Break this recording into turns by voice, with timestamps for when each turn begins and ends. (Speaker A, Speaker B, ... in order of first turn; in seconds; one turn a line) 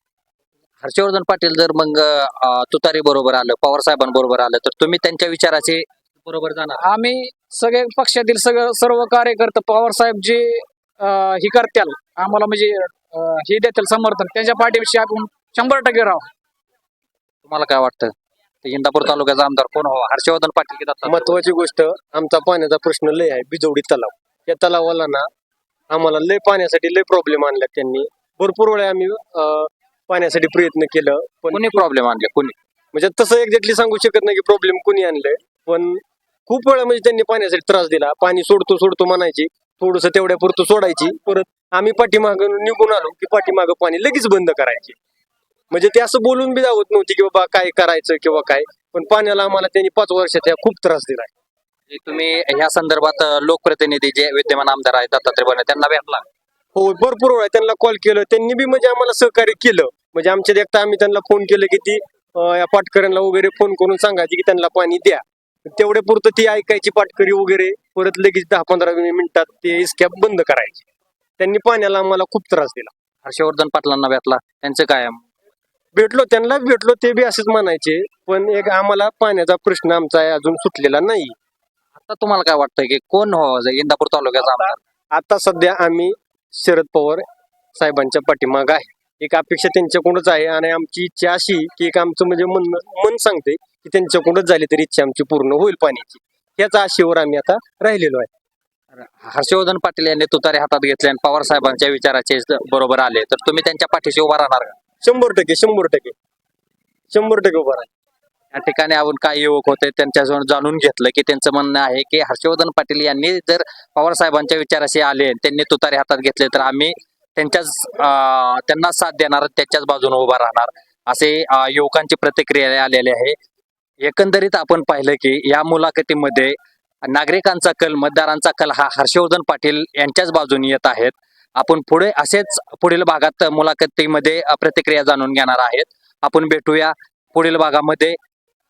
Speaker A: 0.8-6.8
Speaker B: 6.8-16.2
Speaker A: 17.4-18.1
Speaker A: 18.6-21.4
Speaker C: 21.1-25.2
Speaker C: 25.9-31.8
Speaker A: 31.5-32.6
Speaker C: 32.9-45.0
Speaker C: 45.7-51.3
Speaker A: 51.9-56.2
Speaker C: 56.8-70.8
Speaker C: 71.4-72.9
Speaker A: 73.2-75.2
Speaker C: 76.0-81.3
Speaker A: 82.0-84.8
Speaker C: 85.2-87.2
Speaker C: 87.8-98.3
Speaker A: 99.0-104.8
Speaker C: 105.0-106.1
Speaker C: 107.1-107.9
Speaker A: 108.5-123.4
Speaker A: 124.0-126.5
Speaker A: 127.1-138.2